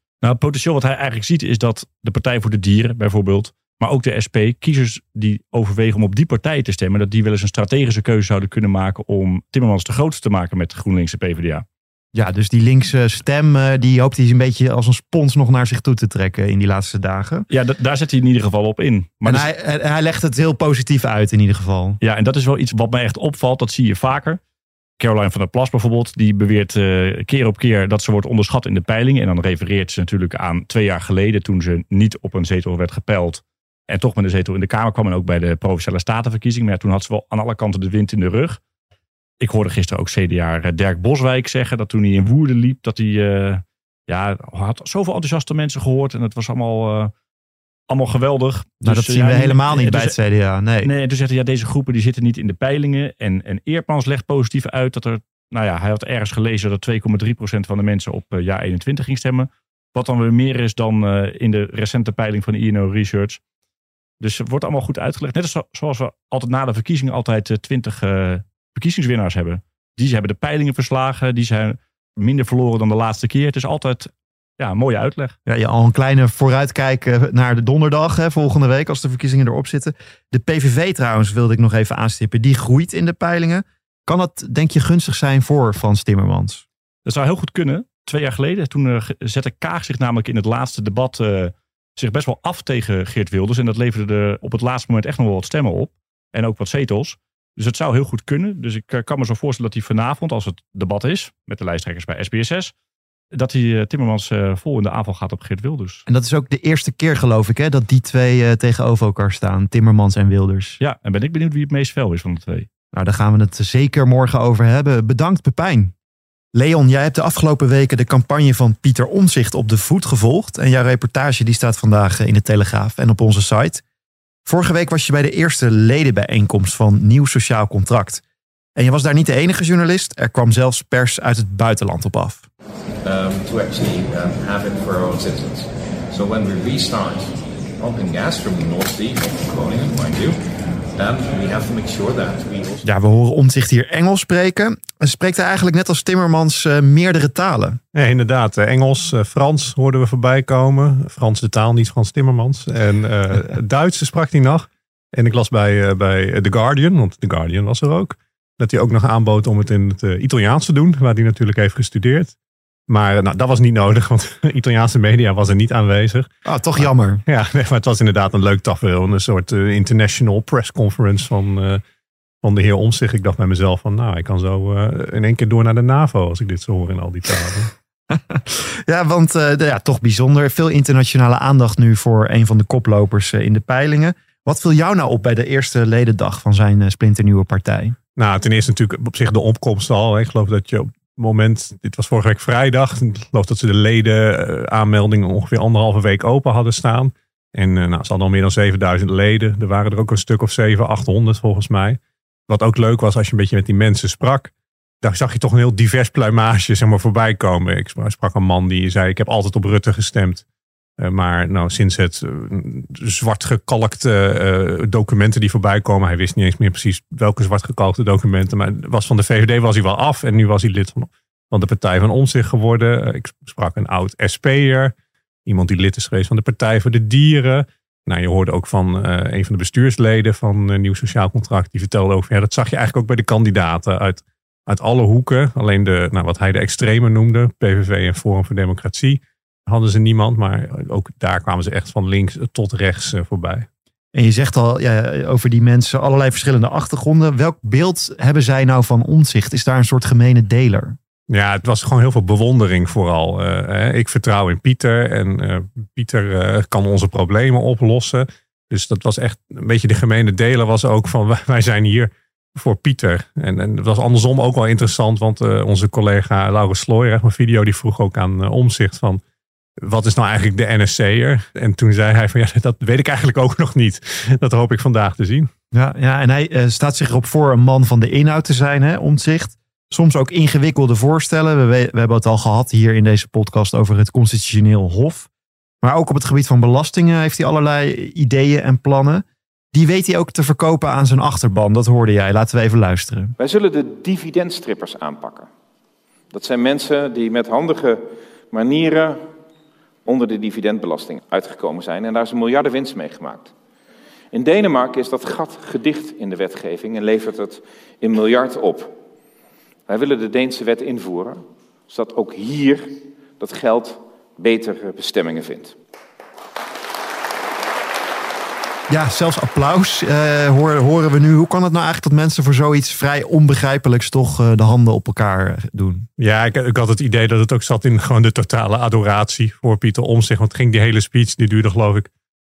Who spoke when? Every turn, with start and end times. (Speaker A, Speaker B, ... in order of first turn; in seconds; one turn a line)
Speaker A: 0.2-11.6
Speaker B: 12.1-17.5
Speaker A: 17.5-19.5
Speaker B: 19.2-22.0
Speaker A: 22.0-24.4
Speaker A: 25.0-38.6
Speaker A: 39.4-47.1
Speaker A: 47.9-50.1
Speaker B: 48.8-50.9
Speaker A: 50.8-63.4
Speaker A: 64.2-75.3
Speaker B: 75.5-86.6
Speaker A: 87.0-102.7
Speaker A: 103.3-106.0
Speaker B: 106.1-110.8
Speaker A: 110.8-112.7
Speaker B: 112.9-115.9
Speaker B: 116.5-123.8
Speaker B: 124.5-128.2
Speaker B: 128.8-132.4
Speaker C: 133.0-140.4
Speaker C: 140.9-142.8
Speaker B: 142.8-147.8
Speaker D: 147.9-162.3
Speaker D: 162.9-171.8
Speaker B: 166.4-167.2
Speaker D: 172.4-177.7
Speaker B: 178.1-187.9
Speaker D: 188.2-204.5
Speaker D: 205.0-210.4
Speaker D: 211.0-224.9
Speaker D: 225.4-243.7
Speaker B: 244.1-250.9
Speaker D: 251.3-269.2
Speaker D: 269.8-275.5
Speaker B: 275.7-285.3
Speaker B: 285.8-293.3
Speaker E: 293.4-295.5
Speaker E: 296.3-299.2
Speaker E: 300.1-303.5
Speaker E: 304.3-308.9
Speaker E: 309.9-315.7
Speaker B: 318.9-326.1
Speaker D: 326.2-332.1